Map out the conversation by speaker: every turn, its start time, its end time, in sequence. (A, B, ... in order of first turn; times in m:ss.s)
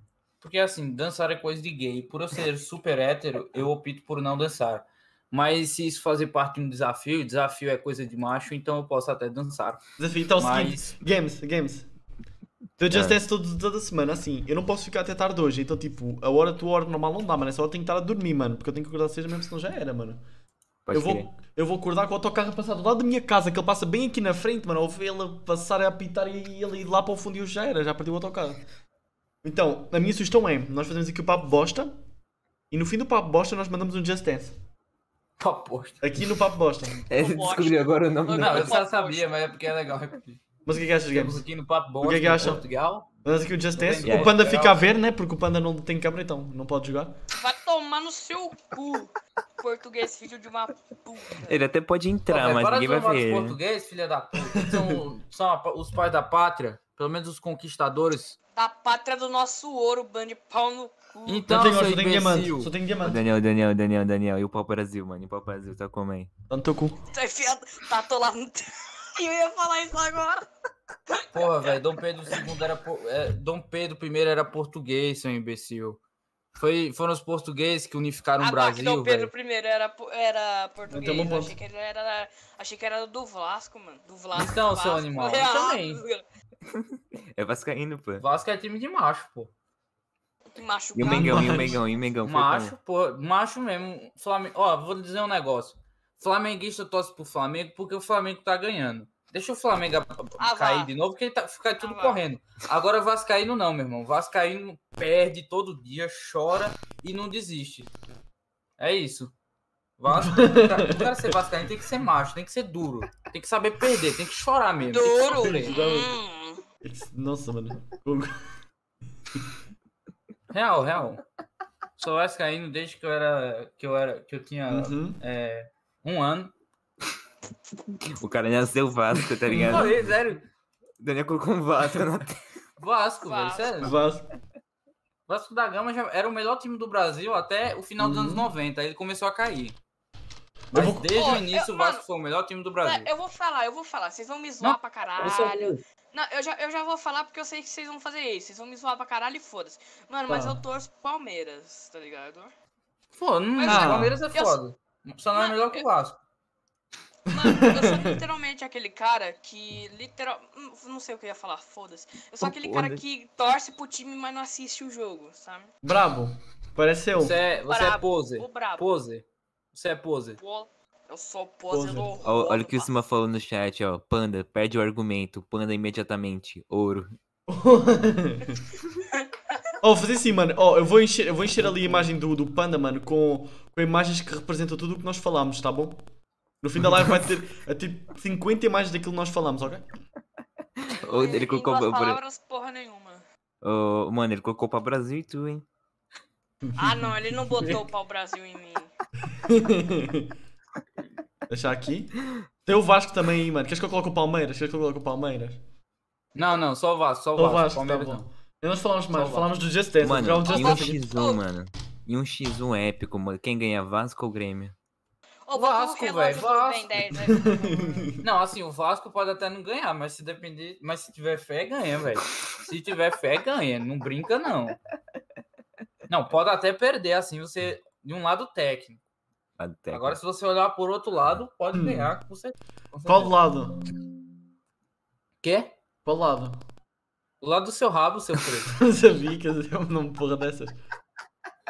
0:00.4-0:09.8 A
0:10.0-0:11.9 B
0:10.4-0:10.9 A
0:12.8-0:20.2 B
0:12.9-0:13.2 C
0:20.9-0:21.3 C
0:20.9-0:28.6 B
0:29.4-0:32.0 B
0:32.7-0:34.6 B
0:35.4-0:36.0 A
0:36.0-0:37.0 B
0:37.1-0:38.8 C
0:37.1-0:39.4 D
0:38.4-0:40.4 A
0:40.7-0:41.4 B
0:41.1-0:43.1 A
0:42.0-0:42.6 B
0:43.2-0:47.2 B
0:43.8-0:44.9 A
0:44.0-0:44.4 C
0:47.4-0:51.6 D
0:51.4-0:53.6 C
0:52.3-0:58.4 A
0:54.4-0:55.0 B
0:58.6-1:01.6 D
1:01.3-1:02.7 A
1:01.5-1:03.2 B
1:03.0-1:06.3 C
1:06.5-1:07.0 B
1:07.1-1:10.5 D
1:11.3-1:16.0 A
1:16.6-1:19.3 A
1:18.4-1:26.2 D
1:20.9-1:21.6 B
1:24.3-1:26.0 A
1:26.7-1:28.2 C
1:28.2-1:29.5 A
1:30.6-1:31.7 D
1:31.0-1:32.8 C
1:31.0-1:31.8 B
1:32.2-1:47.9 A
1:40.4-1:40.9 D
1:41.8-1:42.2 D
1:48.8-1:49.3 A
1:50.0-1:55.8 A
1:50.1-1:51.3 B
1:54.9-1:56.6 D
1:55.4-1:56.1 B
1:56.8-1:58.4 B
2:00.5-2:01.2 A
2:02.0-2:06.5 A
2:04.7-2:05.2 B
2:08.1-2:10.1 C
2:09.5-2:09.9 B
2:09.5-2:10.4 A
2:11.0-2:12.4 C
2:12.8-2:14.0 A
2:13.2-2:13.9 D
2:13.8-2:14.3 B
2:15.3-2:19.8 A
2:18.0-2:18.5 B
2:20.7-2:21.1 B
2:20.7-2:23.1 A
2:21.1-2:22.0 D
2:22.8-2:32.5 D
2:24.6-2:25.8 A
2:30.3-2:30.6 B
2:33.1-2:36.2 A
2:33.6-2:34.6 D
2:33.6-2:34.2 B
2:35.3-2:35.8 D
2:37.3-2:38.2 B
2:37.3-2:45.7 D
2:42.4-2:43.0 C
2:45.8-2:47.4 B
2:47.2-2:50.4 A
2:47.7-2:48.8 D
2:50.4-2:52.9 D
2:51.7-2:52.1 B
2:52.2-2:57.2 C
2:57.5-2:58.6 B
2:59.8-3:06.0 B
3:06.6-3:09.8 B
3:06.8-3:07.2 C
3:10.8-3:12.2 C
3:11.0-3:13.2 D
3:13.6-3:15.6 C
3:16.6-3:17.8 B
3:16.8-3:18.9 D
3:19.3-3:20.3 B
3:21.5-3:25.6 B
3:26.4-3:28.2 A
3:27.4-3:31.0 B
3:29.1-3:29.5 A
3:30.0-3:34.7 C
3:30.5-3:31.4 D
3:35.5-3:38.1 D
3:35.5-3:37.1 A
3:37.4-3:38.3 B
3:38.2-3:44.8 A
3:46.1-3:49.0 A
3:49.6-3:50.2 C
3:49.9-3:53.4 A
3:51.8-3:52.1 B
3:53.0-3:53.8 B
3:55.4-3:55.7 A
3:56.0-3:56.6 B
3:57.4-3:58.8 A
3:58.7-4:00.8 B